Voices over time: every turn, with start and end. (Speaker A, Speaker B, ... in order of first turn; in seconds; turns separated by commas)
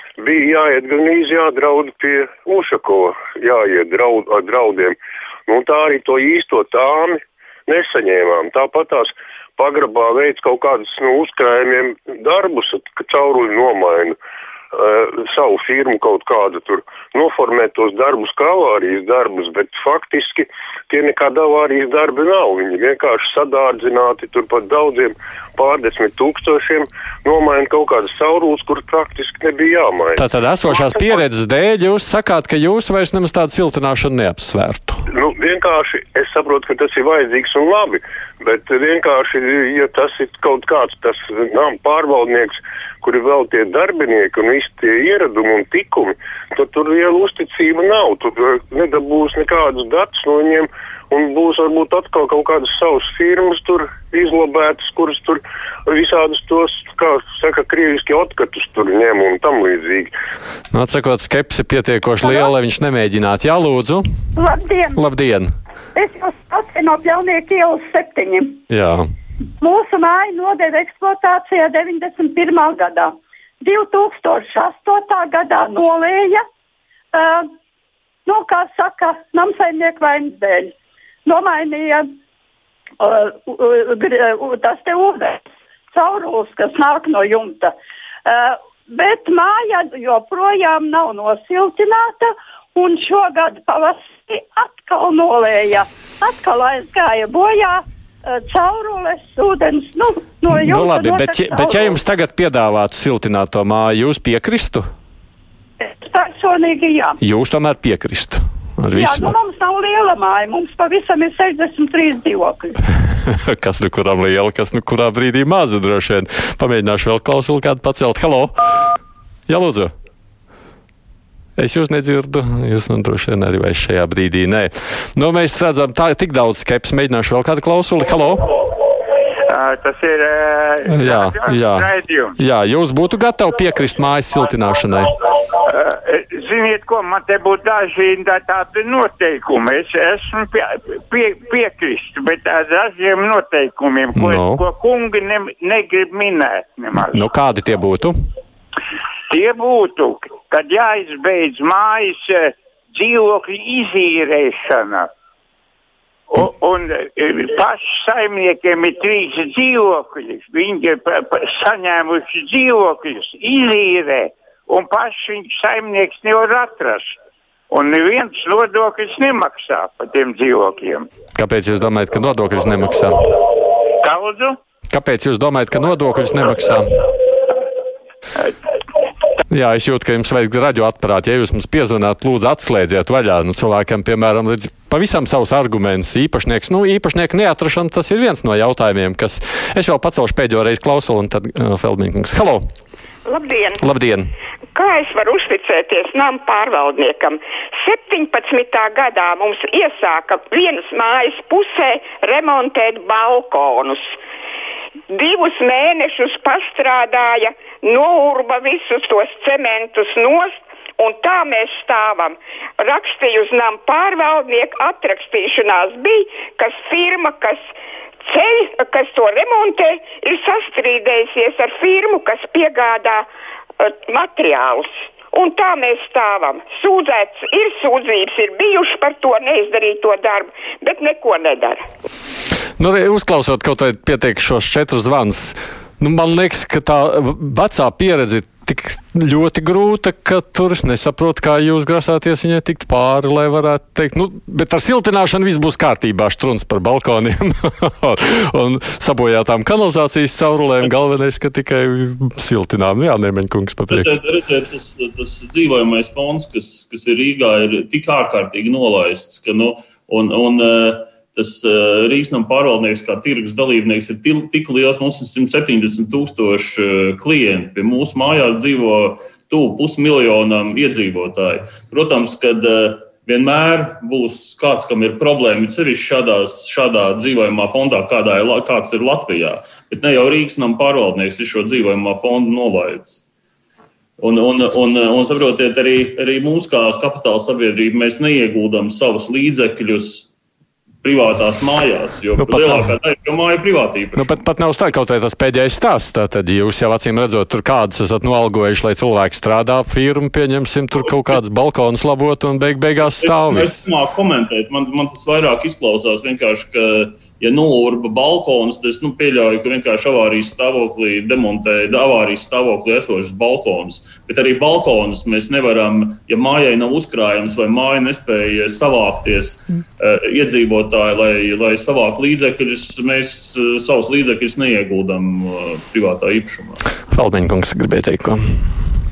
Speaker A: 0.2-14.2, Speaker A: 14.7-30.2, Speaker B: 30.1-35.0, Speaker A: 30.8-31.2, Speaker A: 35.1-60.1, Speaker B: 60.7-64.1, Speaker C: 62.2-62.5, Speaker C: 64.3-65.0, Speaker B: 65.0-65.5, Speaker C: 65.9-68.6, Speaker B: 68.7-69.0, Speaker C: 69.6-76.4, Speaker C: 77.1-77.5, Speaker C: 78.2-80.7, Speaker C: 81.2-82.1, Speaker C: 83.0-87.7, Speaker C: 88.2-102.0, Speaker B: 100.5-104.9, Speaker C: 105.8-107.2, Speaker B: 107.2-109.3, Speaker C: 108.9-112.8, Speaker B: 113.3-118.6, Speaker B: 119.5-119.9, Speaker B: 121.6-128.5, Speaker D: 129.5-132.4, Speaker B: 130.9-135.1, Speaker D: 135.5-147.2, Speaker B: 144.2-144.6, Speaker B: 147.0-148.1, Speaker D: 149.3-155.1, Speaker D: 156.3-167.2, Speaker D: 167.7-171.1, Speaker B: 171.3-173.3, Speaker D: 174.0-174.6, Speaker B: 174.9-177.0, Speaker B: 179.5-192.7, Speaker E: 193.2-193.8, Speaker B: 193.8-194.3, Speaker E: 194.7-204.2, Speaker E: 205.1-217.7, Speaker E: 218.2-223.3, Speaker E: 223.8-231.8, Speaker B: 232.8-254.1, Speaker F: 253.9-283.2, Speaker F: 284.2-290.3, Speaker F: 291.0-294.4, Speaker B: 292.4-292.9, Speaker B: 294.2-303.8, Speaker F: 303.0-326.8, Speaker B: 327.1-328.6